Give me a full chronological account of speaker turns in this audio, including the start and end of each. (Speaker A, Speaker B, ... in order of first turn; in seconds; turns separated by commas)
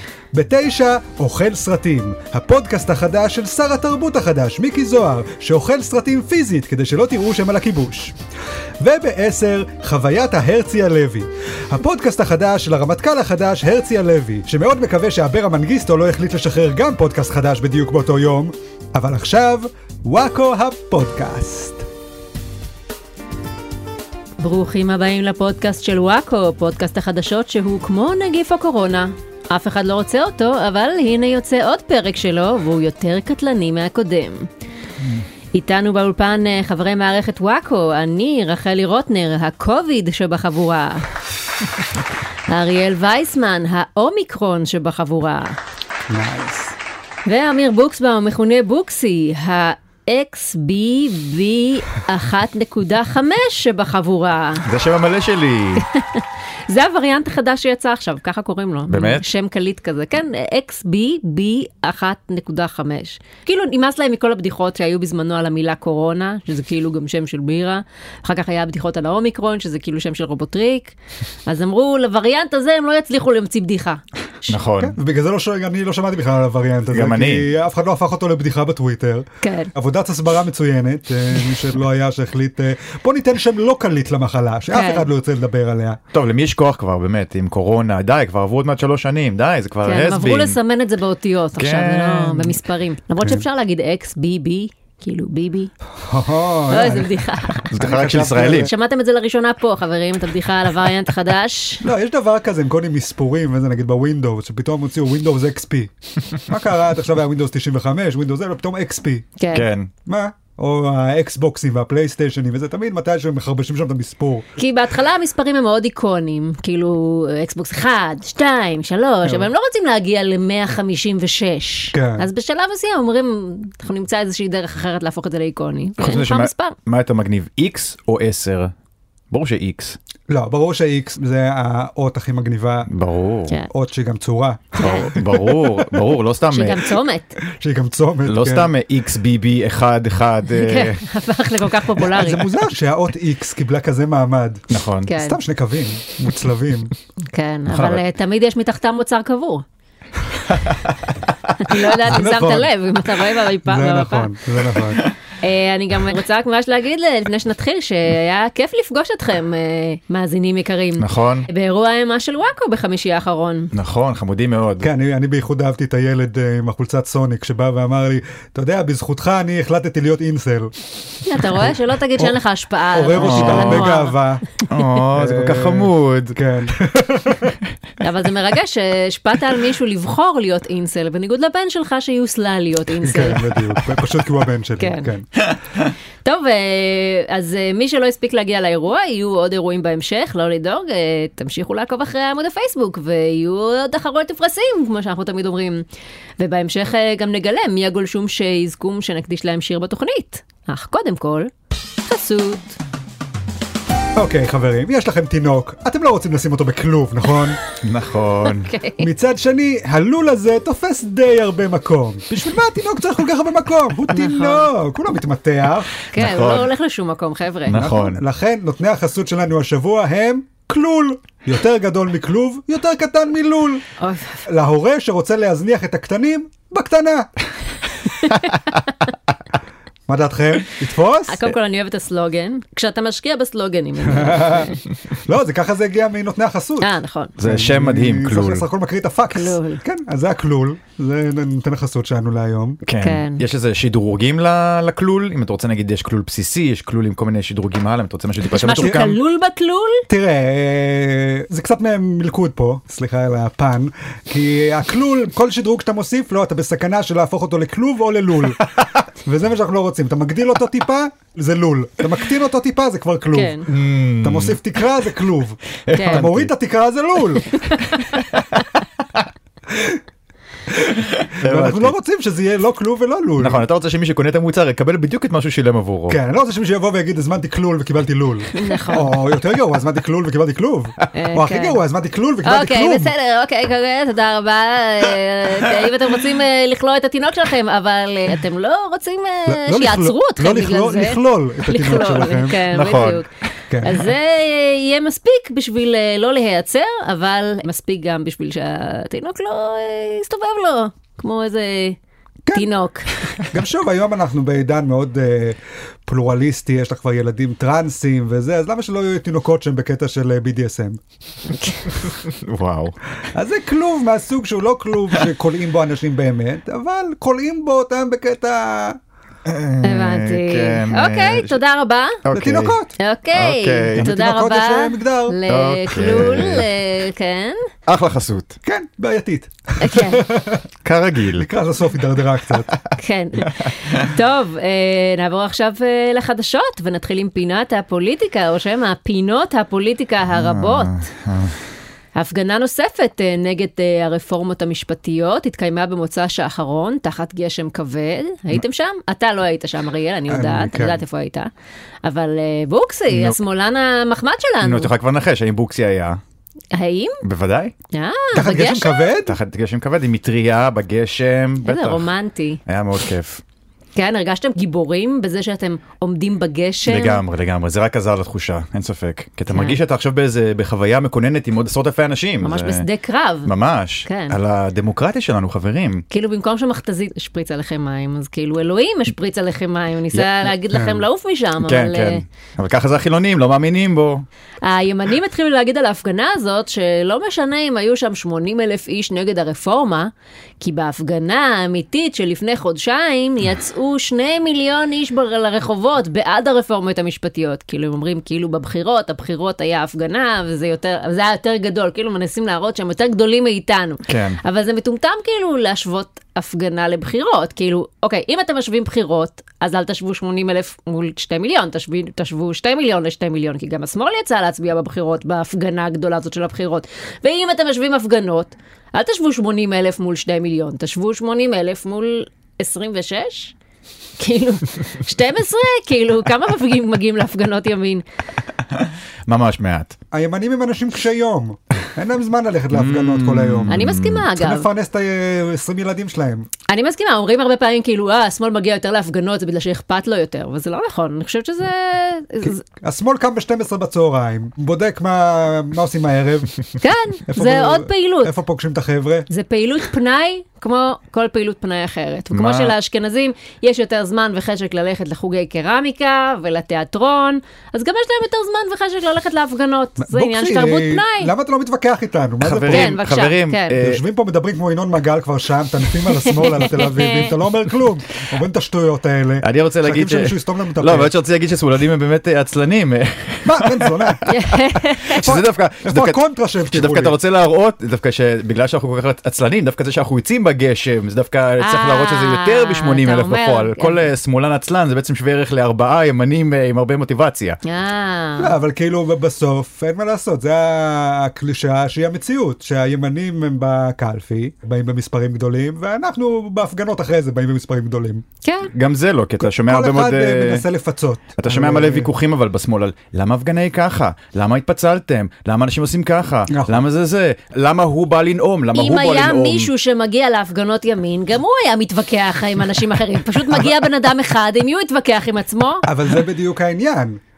Speaker A: 0.3-8.1, Speaker A: 8.8-21.9, Speaker B: 24.4-34.5, Speaker B: 35.5-41.1, Speaker B: 42.5-45.6, Speaker A: 46.1-46.7, Speaker B: 47.3-54.7, Speaker C: 54.6-55.9, Speaker B: 55.8-71.0, Speaker C: 58.9-59.2, Speaker B: 71.5-74.6, Speaker C: 74.5-75.0, Speaker A: 74.8-86.0, Speaker C: 76.9-77.5, Speaker B: 79.4-79.7, Speaker B: 84.7-85.1, Speaker C: 86.1-90.6, Speaker B: 89.8-95.7, Speaker C: 91.6-92.6, Speaker A: 96.0-97.1, Speaker B: 96.7-97.7, Speaker C: 97.5-98.7, Speaker A: 97.8-98.7, Speaker B: 98.6-101.8, Speaker A: 101.8-109.3, Speaker B: 109.4-109.7, Speaker C: 109.5-109.9, Speaker A: 110.1-114.5, Speaker B: 114.6-126.8, Speaker A: 121.9-122.3, Speaker C: 126.0-128.7, Speaker C: 129.3-130.0, Speaker A: 130.3-132.9, Speaker C: 132.9-133.6, Speaker A: 133.7-136.1, Speaker B: 134.8-135.1, Speaker C: 134.8-136.9, Speaker B: 136.5-137.4, Speaker A: 137.4-138.7, Speaker C: 138.3-141.0, Speaker B: 140.5-142.5, Speaker A: 142.1-144.7, Speaker C: 144.7-145.1, Speaker B: 145.1-145.4, Speaker A: 145.2-146.9, Speaker B: 147.3-149.6, Speaker C: 147.7-148.0, Speaker C: 150.6-150.9, Speaker B: 151.6-154.3, Speaker A: 151.8-152.7, Speaker A: 153.6-155.1, Speaker B: 155.4-163.7, Speaker C: 161.0-161.5, Speaker C: 163.7-164.9, Speaker A: 164.8-170.7, Speaker B: 171.3-174.2, Speaker A: 172.9-177.6, Speaker C: 173.2-173.9, Speaker C: 174.7-176.4, Speaker B: 178.0-183.6, Speaker A: 183.0-185.4, Speaker B: 184.8-185.1, Speaker B: 186.2-195.9, Speaker B: 196.4-201.5, Speaker B: 202.0-202.8, Speaker A: 204.2-207.6, Speaker C: 207.8-208.7, Speaker B: 208.4-209.1, Speaker A: 209.0-216.0, Speaker B: 214.1-214.7, Speaker B: 216.1-217.8, Speaker C: 216.2-216.7, Speaker C: 217.7-218.2, Speaker A: 217.7-223.8, Speaker B: 224.0-224.5, Speaker A: 224.5-227.3, Speaker B: 228.2-228.5, Speaker C: 228.3-228.5, Speaker A: 230.1-231.4, Speaker B: 231.3-234.8, Speaker A: 234.1-236.9, Speaker B: 236.8-237.4, Speaker C: 237.4-238.7, Speaker A: 237.4-242.8, Speaker B: 239.3-239.8, Speaker C: 242.8-249.2, Speaker B: 243.0-243.4, Speaker B: 248.4-250.1, Speaker A: 248.8-249.1, Speaker A: 250.1-267.6, Speaker B: 263.3-263.7, Speaker C: 263.7-264.6, Speaker C: 265.9-266.5, Speaker B: 265.9-266.2, Speaker B: 267.6-268.1, Speaker A: 269.7-270.0, Speaker A: 270.7-273.6, Speaker C: 271.1-271.9, Speaker C: 273.4-276.2, Speaker A: 276.1-283.1, Speaker B: 278.5-279.1, Speaker B: 281.1-281.8, Speaker B: 282.4-302.0, Speaker A: 289.5-292.6, Speaker C: 292.7-293.2, Speaker A: 293.7-294.0, Speaker B: 302.5-303.1, Speaker A: 303.4-311.0, Speaker B: 311.6-311.9, Speaker C: 312.0-313.0, Speaker A: 313.3-319.0, Speaker C: 319.5-321.6, Speaker B: 319.8-322.2, Speaker C: 322.2-322.8, Speaker A: 322.3-322.9, Speaker B: 323.0-327.7, Speaker C: 323.3-324.1, Speaker A: 323.9-325.4, Speaker C: 325.5-326.7, Speaker C: 327.9-328.6, Speaker A: 328.6-330.6, Speaker B: 329.8-330.3, Speaker C: 330.8-331.5, Speaker A: 331.4-332.8, Speaker B: 333.0-341.0, Speaker C: 333.5-334.1, Speaker C: 340.3-341.6, Speaker B: 342.2-351.5, Speaker A: 350.3-351.0, Speaker B: 352.0-354.9, Speaker C: 353.1-353.4, Speaker C: 354.6-356.2, Speaker B: 356.7-357.2, Speaker C: 357.2-357.7, Speaker B: 357.9-359.1, Speaker A: 358.3-359.4, Speaker C: 359.2-362.1, Speaker B: 361.6-362.6, Speaker C: 362.7-363.4, Speaker B: 364.0-367.2, Speaker C: 366.9-372.9, Speaker B: 369.5-369.8, Speaker B: 372.4-373.5, Speaker C: 373.4-376.1, Speaker B: 374.1-374.4, Speaker B: 376.1-382.2, Speaker A: 380.7-381.0, Speaker C: 381.6-384.3, Speaker B: 384.6-423.6, Speaker C: 404.1-404.4, Speaker B: 424.2-428.0, Speaker C: 428.8-430.0, Speaker A: 430.1-436.5, Speaker C: 432.7-434.3, Speaker B: 433.7-434.7, Speaker B: 436.7-442.6, Speaker A: 442.8-446.7, Speaker B: 446.8-448.3, Speaker A: 447.3-449.3, Speaker B: 449.3-461.3, Speaker C: 452.3-452.8, Speaker A: 460.0-463.0, Speaker C: 462.4-464.0, Speaker B: 462.7-463.8, Speaker A: 463.7-471.1, Speaker B: 466.2-467.3, Speaker C: 469.4-474.1, Speaker A: 473.4-474.3, Speaker B: 474.2-475.2, Speaker C: 475.0-487.6, Speaker A: 475.1-477.2, Speaker B: 481.6-484.0, Speaker B: 487.6-488.6, Speaker A: 488.4-498.2, Speaker B: 498.4-498.7, Speaker C: 498.7-500.6, Speaker A: 499.4-502.1, Speaker C: 501.4-509.7, Speaker A: 506.5-506.8, Speaker B: 508.7-515.9, Speaker A: 515.9-517.2